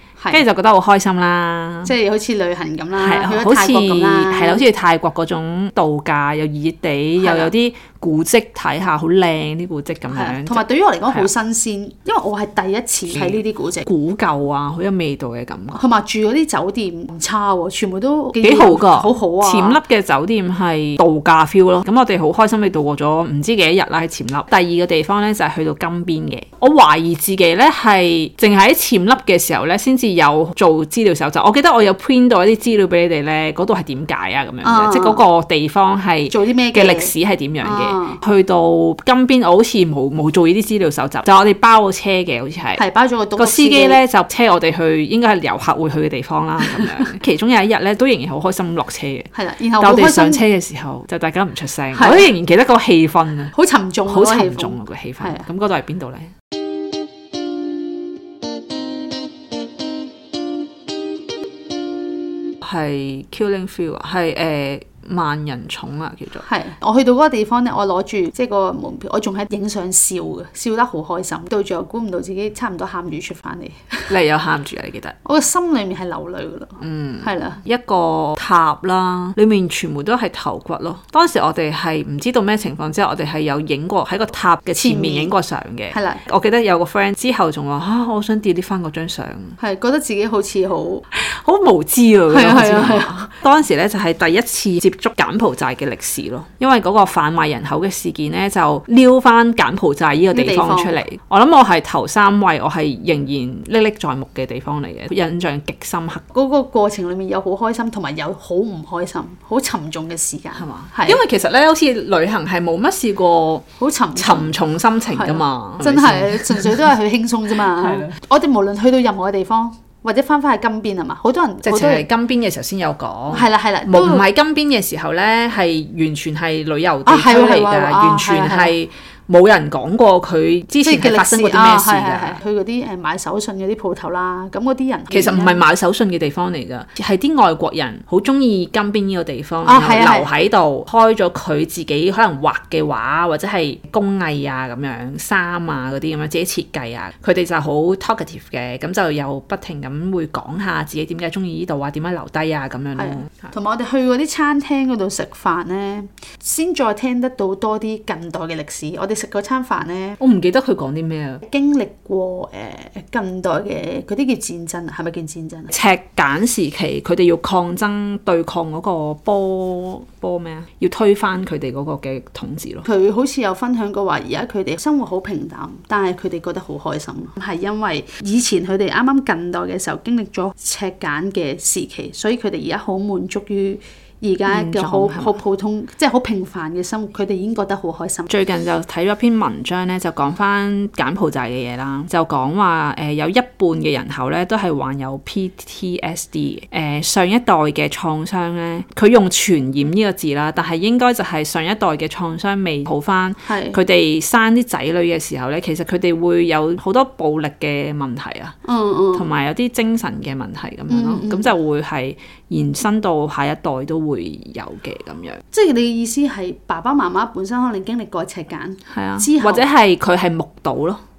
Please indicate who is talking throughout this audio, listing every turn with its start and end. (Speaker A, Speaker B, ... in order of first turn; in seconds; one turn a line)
Speaker A: 0.3-1.9
Speaker B: 1.8-4.6
Speaker A: 2.9-11.3
Speaker B: 7.2-7.5
Speaker B: 10.1-13.8
Speaker A: 13.1-15.8
Speaker B: 15.8-19.8
Speaker A: 18.4-42.8
Speaker B: 34.6-35.2
Speaker B: 36.3-38.2
Speaker B: 42.8-44.0
Speaker A: 43.4-53.5
Speaker B: 49.3-50.4
Speaker B: 51.9-52.2
Speaker B: 53.5-55.5
Speaker A: 54.1-56.3
Speaker A: 62.6-66.4
Speaker B: 66.4-74.1
Speaker A: 74.1-75.2
Speaker B: 75.2-77.6
Speaker A: 76.8-89.6
Speaker B: 84.8-85.3
Speaker B: 85.9-86.2
Speaker B: 89.6-91.0
Speaker A: 91.1-106.2
Speaker B: 92.3-93.3
Speaker B: 100.3-101.0
Speaker B: 106.3-111.2
Speaker A: 110.5-116.8
Speaker B: 113.8-114.5
Speaker B: 115.1-122.1
Speaker A: 117.8-118.1
Speaker A: 121.6-132.4
Speaker B: 123.3-124.2
Speaker B: 127.0-128.8
Speaker B: 130.8-135.6
Speaker A: 135.1-153.5
Speaker B: 139.7-140.3
Speaker B: 152.9-160.2
Speaker A: 160.2-161.4
Speaker B: 161.4-165.7
Speaker A: 165.7-172.9
Speaker B: 172.8-188.3
Speaker A: 184.5-185.4
Speaker A: 188.3-208.6
Speaker B: 203.5-203.8
Speaker B: 208.7-209.3
Speaker A: 209.1-215.4
Speaker B: 210.9-211.5
Speaker B: 215.5-219.7
Speaker A: 218.9-221.0